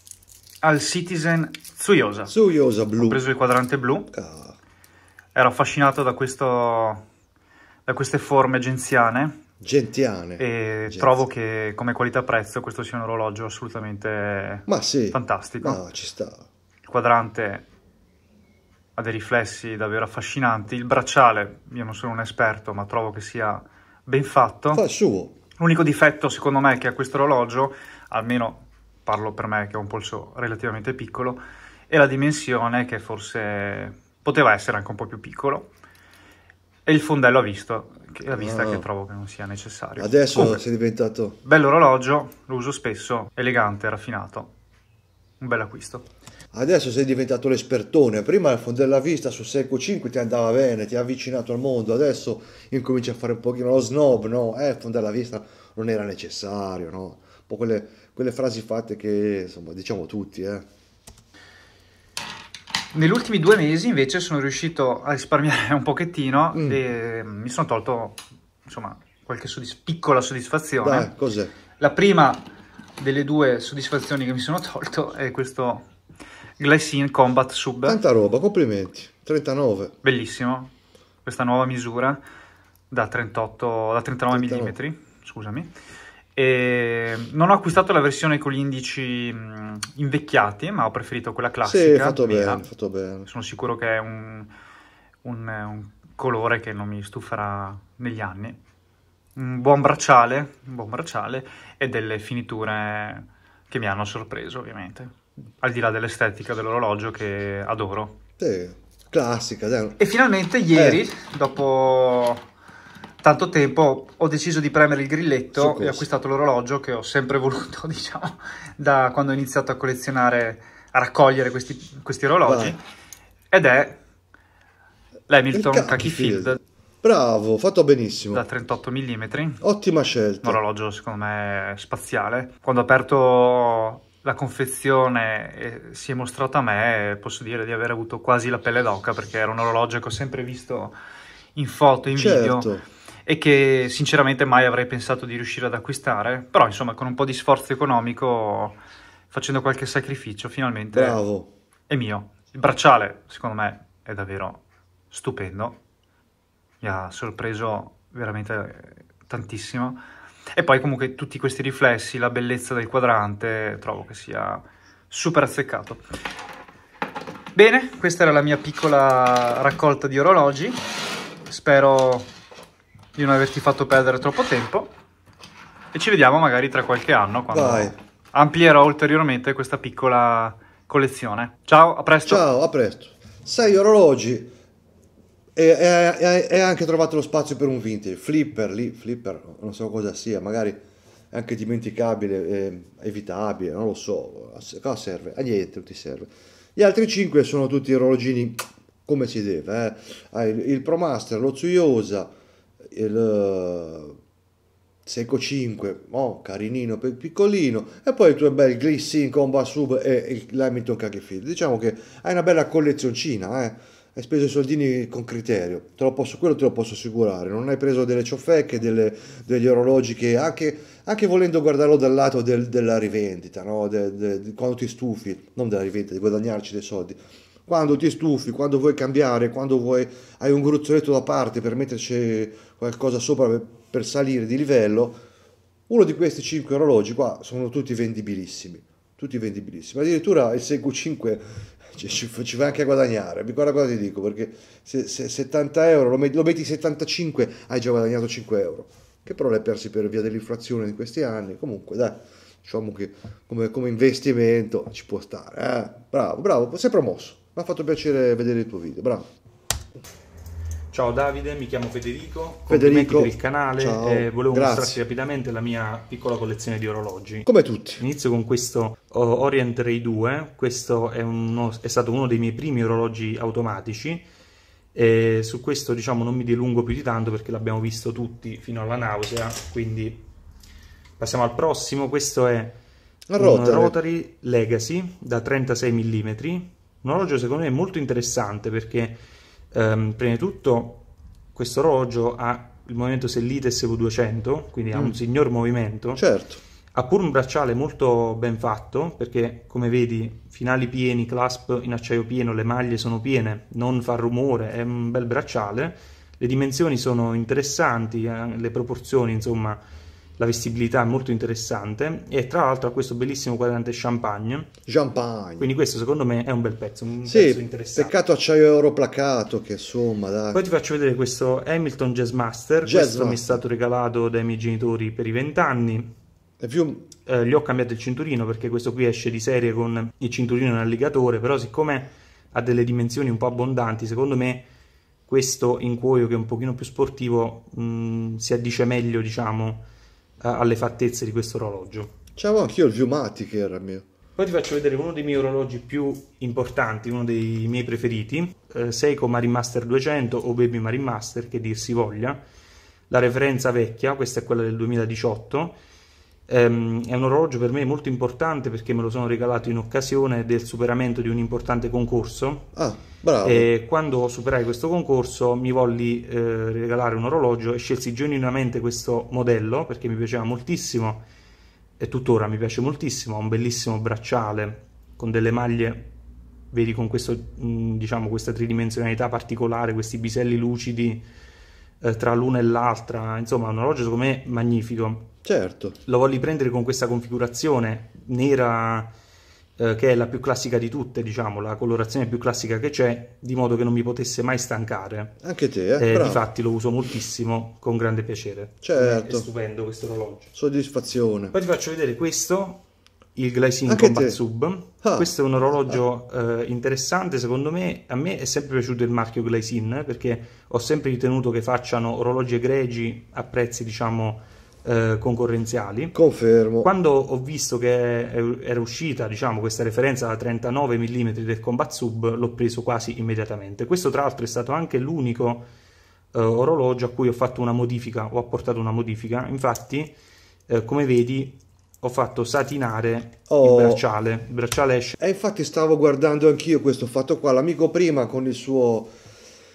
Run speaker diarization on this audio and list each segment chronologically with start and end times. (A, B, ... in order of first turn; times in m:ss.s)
0:00.6-0:02.3 A
0:02.3-0:03.2 B
0:03.0-0:04.1 A
0:04.1-0:04.6 B
0:05.3-0:07.0 A
0:07.8-0:09.4 A
0:09.6-0:11.2 B
0:10.4-0:15.8 A
0:14.6-0:16.5 B
0:16.8-0:17.6 A
0:19.0-0:24.8 A
0:24.7-0:25.3 B
0:25.6-0:35.7 A
0:36.8-0:40.6 A
0:38.3-0:38.8 B
0:40.0-0:41.4 B
0:41.4-0:44.5 A
0:45.4-0:46.0 A
0:46.5-1:00.6 B
1:02.9-1:11.1 A
1:06.5-1:06.8 B
1:10.8-1:11.5 B
1:11.8-1:12.4 A
1:13.0-1:15.8 A
1:16.6-1:18.0 A
1:17.8-1:19.9 B
1:20.0-1:20.7 A
1:21.2-1:22.2 A
1:22.9-1:25.7 A
1:24.3-1:24.8 B
1:26.4-1:32.6 A
1:31.6-1:33.3 B
1:33.2-1:34.5 A
1:35.2-1:38.6 A
1:39.4-1:48.2 A
1:48.4-1:50.0 B
1:50.0-1:52.4 A
1:50.7-1:51.0 B
1:53.2-2:02.8 A
1:55.5-1:56.0 B
2:02.4-2:02.8 B
2:03.5-2:04.0 A
2:05.3-2:06.6 A
2:05.5-2:08.4 B
2:08.3-2:09.6 A
2:09.6-2:10.6 B
2:10.4-2:21.0 A
2:21.5-2:22.7 A
2:22.1-2:22.8 B
2:23.2-2:28.8 A
2:29.3-2:31.2 A
2:30.9-2:31.5 B
2:31.9-2:35.8 A
2:36.8-2:40.0 A
2:40.5-2:46.0 A
2:47.6-2:50.8 A
2:51.4-2:52.3 A
2:53.2-2:54.9 A
2:55.9-3:02.4 A
2:57.5-2:58.0 B
3:02.2-3:04.5 B
3:05.6-3:22.3 B
3:22.9-3:24.2 B
3:25.0-3:55.2 B
3:55.9-4:19.3 B
4:20.9-4:34.2 C
4:22.7-4:25.0 B
4:27.4-4:28.0 B
4:34.9-4:40.2 C
4:41.2-4:42.8 C
4:43.3-4:44.0 B
4:43.4-4:49.2 C
4:49.7-4:56.2 C
4:56.2-4:56.6 B
4:56.9-5:09.8 C
5:10.4-5:14.7 C
5:14.9-5:15.7 B
5:15.6-5:18.1 C
5:17.2-5:20.6 B
5:20.5-5:26.1 C
5:22.8-5:23.6 B
5:26.6-5:27.1 B
5:27.2-5:34.7 C
5:35.3-5:39.9 C
5:40.4-5:42.1 C
5:42.4-5:44.0 B
5:44.4-5:52.4 C
5:53.1-5:55.8 C
5:56.5-6:02.7 C
6:02.7-6:03.7 B
6:03.4-6:11.2 C
6:12.0-6:16.1 C
6:16.7-6:21.2 C
6:22.0-6:25.3 C
6:25.4-6:26.0 B
6:26.0-6:29.1 C
6:29.8-6:35.4 C
6:35.4-6:36.4 B
6:36.0-6:40.5 C
6:38.8-6:39.5 B
6:40.5-6:41.6 B
6:41.5-6:42.8 C
6:43.4-6:56.2 C
6:43.8-6:44.4 B
6:45.0-6:45.3 B
6:56.1-6:56.9 B
6:56.8-7:05.7 C
7:06.3-7:10.1 C
7:10.7-7:15.2 C
7:13.5-7:14.0 B
7:15.2-7:19.1 B